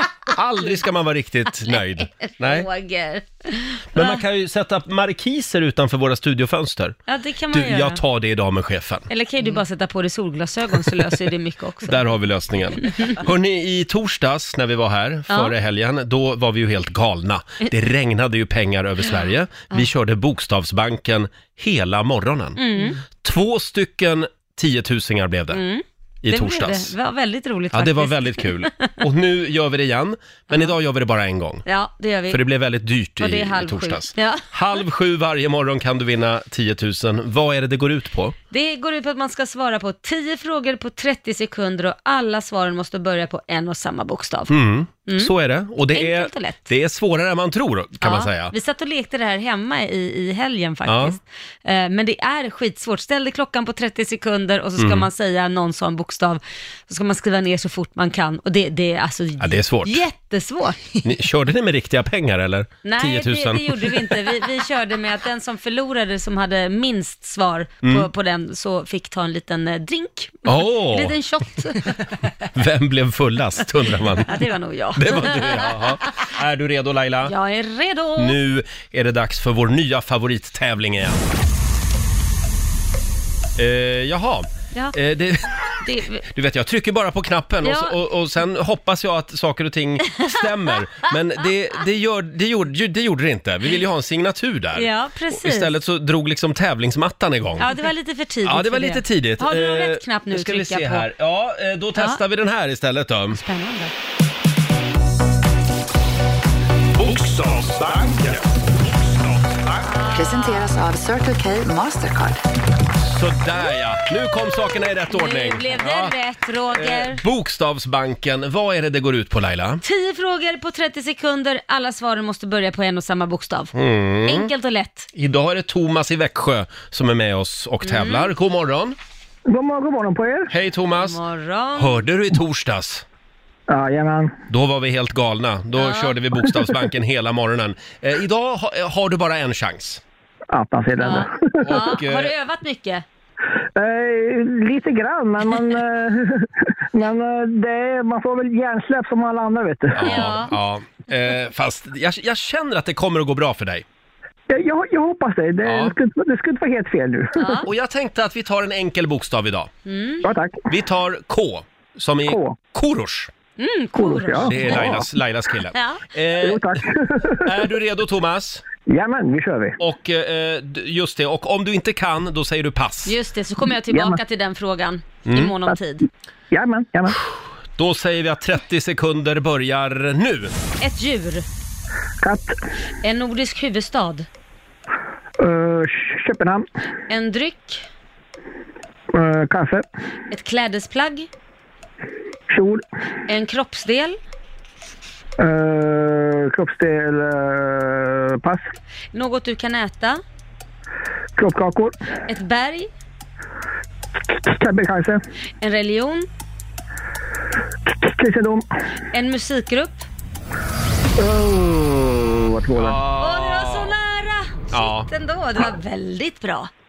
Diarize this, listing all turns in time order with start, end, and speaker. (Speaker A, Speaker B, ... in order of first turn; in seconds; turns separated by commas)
Speaker A: 0.3-2.7, Speaker B: 2.3-4.2, Speaker A: 3.9-7.0, Speaker B: 7.1-8.0, Speaker A: 7.5-9.1, Speaker B: 9.1-12.0, Speaker A: 11.8-25.6, Speaker B: 12.8-13.2, Speaker B: 22.6-23.0, Speaker B: 25.5-28.9, Speaker A: 26.2-26.9, Speaker A: 27.7-31.6, Speaker B: 31.6-32.4, Speaker A: 32.3-38.3, Speaker B: 33.2-34.5, Speaker B: 38.5-44.5, Speaker A: 44.5-48.5, Speaker B: 45.0-45.3, Speaker B: 45.9-46.7, Speaker B: 48.0-60.9, Speaker A: 50.9-51.1, Speaker A: 54.8-55.1, Speaker A: 59.4-60.0, Speaker A: 61.0-64.1, Speaker B: 62.8-71.9, Speaker A: 67.8-68.1, Speaker A: 70.5-71.1, Speaker A: 72.5-74.3, Speaker B: 74.2-76.0, Speaker A: 75.0-77.3, Speaker B: 77.2-78.4, Speaker A: 78.2-81.2, Speaker A: 83.6-85.8, Speaker B: 85.8-86.3, Speaker A: 86.3-97.7, Speaker B: 87.6-88.0, Speaker B: 90.1-90.4, Speaker B: 94.7-95.7, Speaker B: 97.6-101.1, Speaker A: 98.4-103.4, Speaker B: 102.0-102.2, Speaker B: 103.3-103.9, Speaker C: 107.0-109.8, Speaker B: 109.8-110.7, Speaker D: 110.1-112.4, Speaker A: 113.0-116.1, Speaker B: 115.1-117.2, Speaker A: 116.7-119.8, Speaker B: 119.8-123.7, Speaker A: 123.7-124.5, Speaker B: 124.3-125.1, Speaker A: 125.1-128.9, Speaker B: 127.8-128.3, Speaker E: 129.5-130.5, Speaker A: 130.5-131.2, Speaker B: 131.0-132.0, Speaker A: 131.7-133.0, Speaker E: 133.7-134.3, Speaker A: 134.5-140.0, Speaker B: 135.8-136.1, Speaker E: 140.5-141.5, Speaker B: 141.0-143.0, Speaker A: 141.6-142.3, Speaker E: 143.7-150.2, Speaker A: 149.9-153.8, Speaker B: 150.0-150.5, Speaker E: 154.5-157.6, Speaker A: 155.6-155.9, Speaker B: 157.4-157.7, Speaker A: 157.7-159.7, Speaker B: 159.8-160.3, Speaker E: 160.2-160.7, Speaker A: 160.7-163.3, Speaker E: 162.3-162.6, Speaker B: 163.6-164.9, Speaker E: 163.9-165.1, Speaker A: 164.4-166.8, Speaker B: 165.7-166.0, Speaker E: 166.4-167.5, Speaker A: 167.4-168.6, Speaker E: 168.8-169.8, Speaker A: 169.8-173.1, Speaker B: 173.1-176.0, Speaker E: 173.9-174.2, Speaker A: 175.2-175.5, Speaker E: 176.5-177.2, Speaker A: 177.8-180.5, Speaker B: 180.8-181.4, Speaker E: 182.2-182.6, Speaker B: 183.0-184.3, Speaker E: 185.4-186.7, Speaker B: 187.1-187.8, Speaker E: 189.1-189.8, Speaker B: 190.3-191.3, Speaker E: 192.5-192.8, Speaker B: 193.3-194.2, Speaker E: 195.4-198.7, Speaker B: 199.1-200.2, Speaker E: 201.3-201.9, Speaker B: 202.3-202.9, Speaker E: 204.3-205.2, Speaker B: 205.6-206.3, Speaker E: 207.8-208.7, Speaker B: 209.1-210.1, Speaker E: 211.2-213.0, Speaker A: 212.8-213.9, Speaker B: 213.2-216.7, Speaker A: 214.7-215.1